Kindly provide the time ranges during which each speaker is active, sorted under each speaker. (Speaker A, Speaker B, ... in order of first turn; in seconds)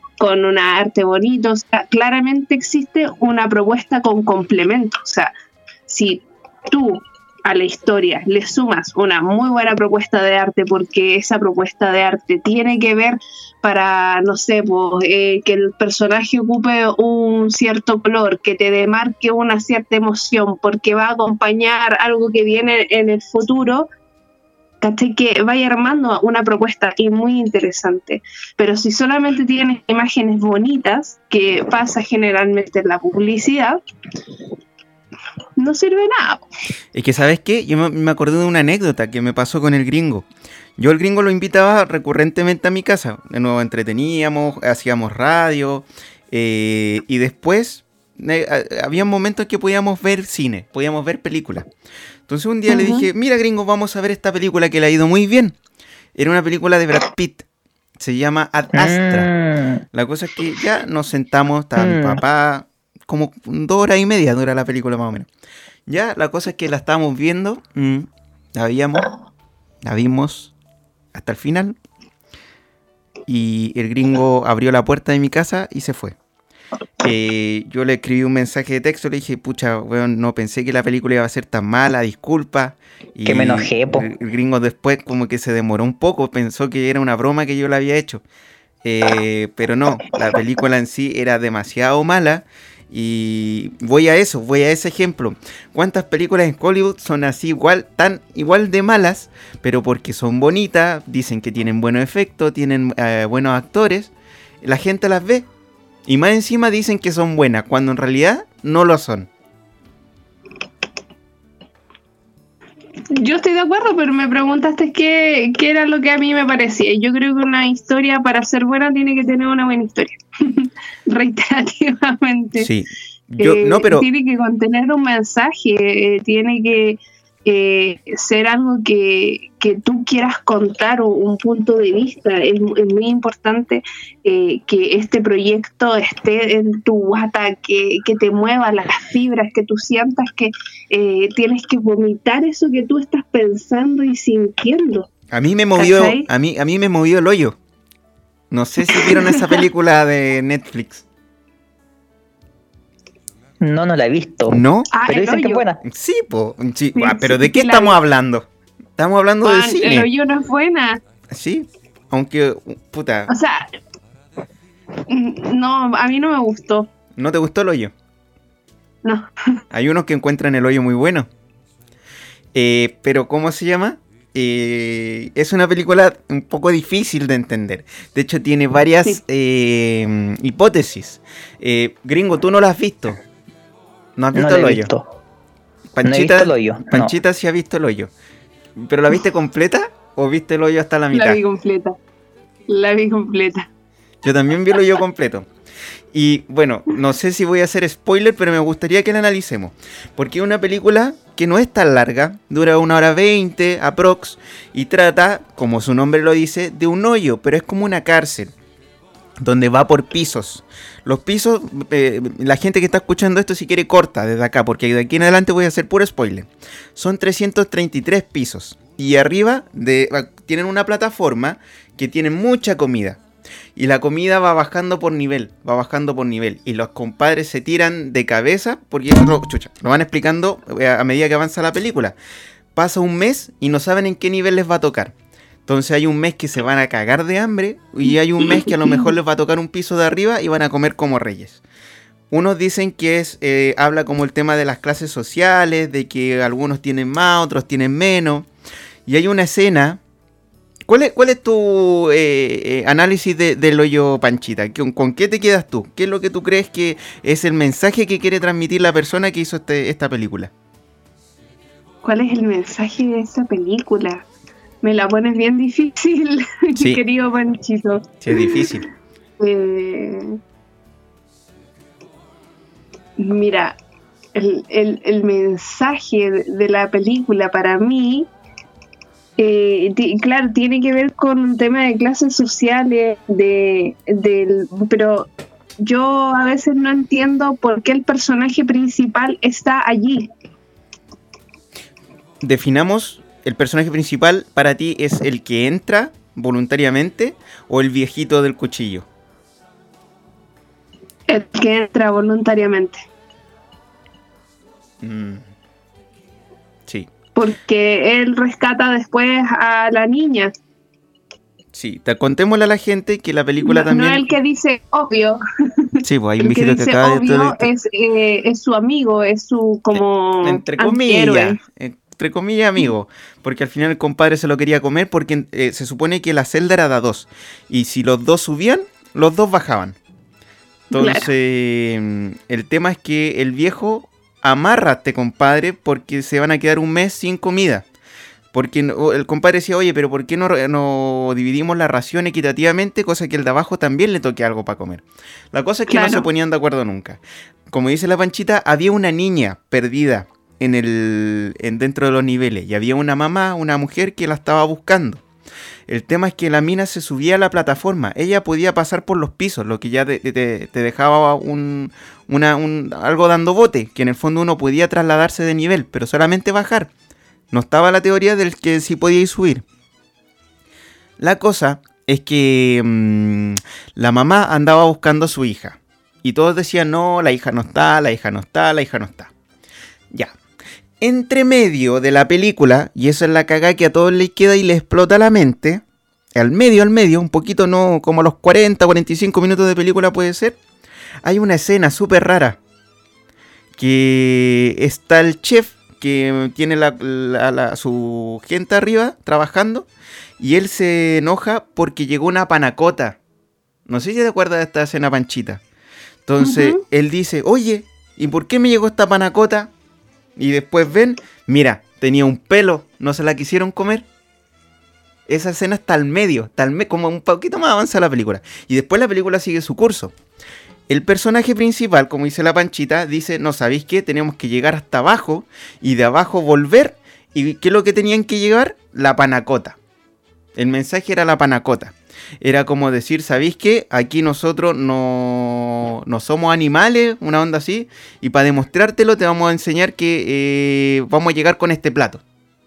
Speaker A: 0.2-5.3, 5.9-23.9, 24.8-33.8, 35.6-36.5, 52.7-53.1, 113.1-122.7, 123.4-145.1, 145.8-146.3, 148.9-149.6, 154.9-155.7, 156.9-158.0, 159.4-161.0, 163.3-163.7, 165.1-166.9, 169.0-169.6, 191.1-192.0, 192.7-193.7, 262.0-264.3, 264.8-268.7, 269.4-270.4, 273.2-273.8, 274.4-278.3, 279.4-290.3, 301.3-303.1, 307.4-310.5, 313.6-321.6, 330.9-331.3, 345.9-346.3, 406.4-406.8
Speaker B: 36.9-40.3, 40.8-51.7, 52.3-55.6, 56.2-57.4, 58.0-59.3, 59.9-65.3, 65.9-69.1, 69.8-70.5, 71.1-71.8, 73.3-76.2, 77.0-88.2, 88.8-104.1, 104.6-105.5, 106.1-109.3, 122.6-124.1, 145.3-147.6, 148.5-151.1, 154.5-154.9, 155.8-160.1, 161.3-163.3, 167.2-167.9, 169.7-171.3, 172.6-183.2, 184.2-184.9, 185.9-188.1, 188.8-191.4, 194.2-195.5, 196.1-208.5, 209.4-223.2, 223.8-232.2, 232.8-235.1, 235.7-241.6, 242.3-248.5, 249.1-250.0, 250.9-260.5, 266.8-267.0, 268.2-268.9, 292.4-299.1, 305.0-305.4, 311.7-314.3, 316.0-317.7, 319.9-330.0, 330.9-337.9, 338.5-347.2, 347.7-355.2, 355.9-366.9, 367.5-369.6, 371.2-379.3, 381.0-385.8, 386.4-390.6, 391.2-392.6, 393.8-399.9, 400.4-403.2, 403.9-405.6, 406.3-409.7, 410.4-414.1, 415.3-420.1, 420.9-429.8, 430.6-442.2
Speaker C: 58.7-59.8, 61.8-62.2, 83.3-84.1, 153.6-155.8, 184.3-185.1, 186.0-187.1